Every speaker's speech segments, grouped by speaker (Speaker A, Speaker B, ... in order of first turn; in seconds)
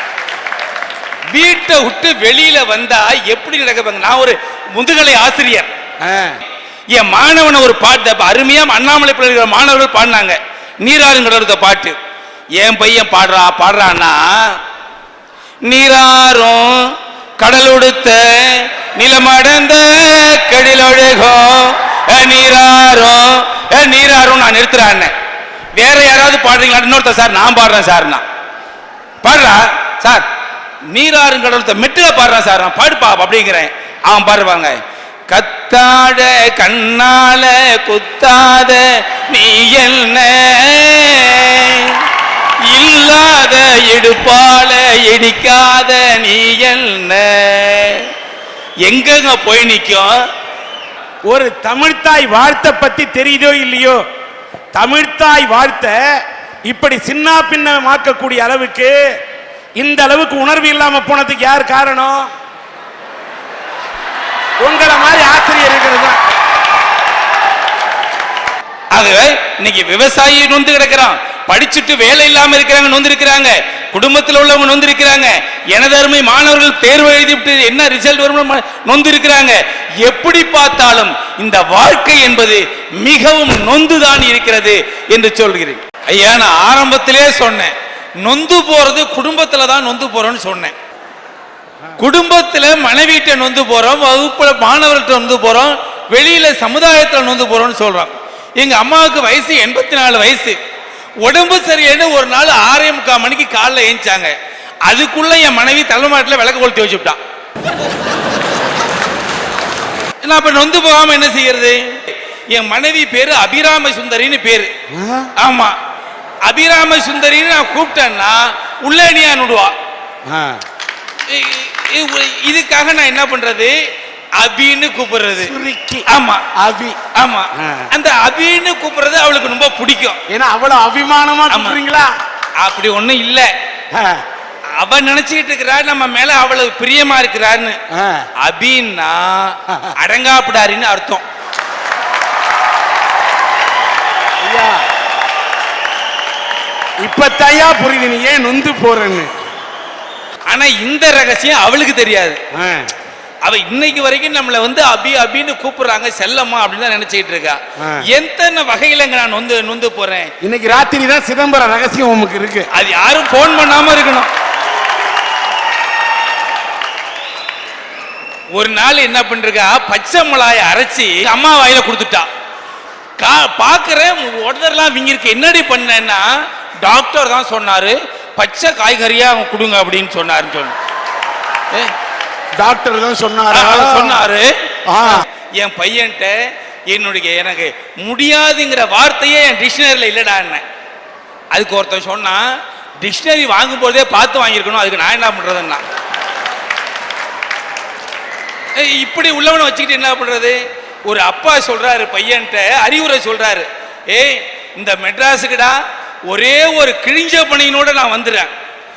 Speaker A: 1.3-5.7, 6.9-11.9, 12.6-14.6, 15.7-25.1, 25.7-28.2, 29.2-30.2, 30.9-42.0, 42.7-48.1, 48.9-50.1, 68.9-90.7, 92.0-100.6, 101.2-104.3, 104.9-107.2, 110.2-114.7, 115.4-115.8, 116.5-119.7, 121.3-123.8, 124.4-125.5, 126.1-126.4, 127.1-130.2, 131.5-131.8, 132.6-133.5, 134.8-137.8, 138.4-141.2, 150.5-152.4, 153.4-160.3, 162.7-164.3, 168.5-172.3, 173.2-176.3, 176.8-180.8, 183.5-184.5, 185.0-186.3, 186.9-190.6, 191.5-192.4, 193.0-195.8, 198.8-208.5
Speaker B: 6.0-6.4, 51.3-54.0, 54.8-56.0, 56.7-58.9, 59.8-62.3, 64.6-66.2, 114.9-115.3, 120.3-120.6, 125.4-127.0, 127.6-127.9, 130.3-132.1, 133.9-134.2, 137.9-138.2, 144.4-144.8, 147.0-149.3, 152.5-152.9, 160.4-162.7, 182.6-184.2, 184.9-185.2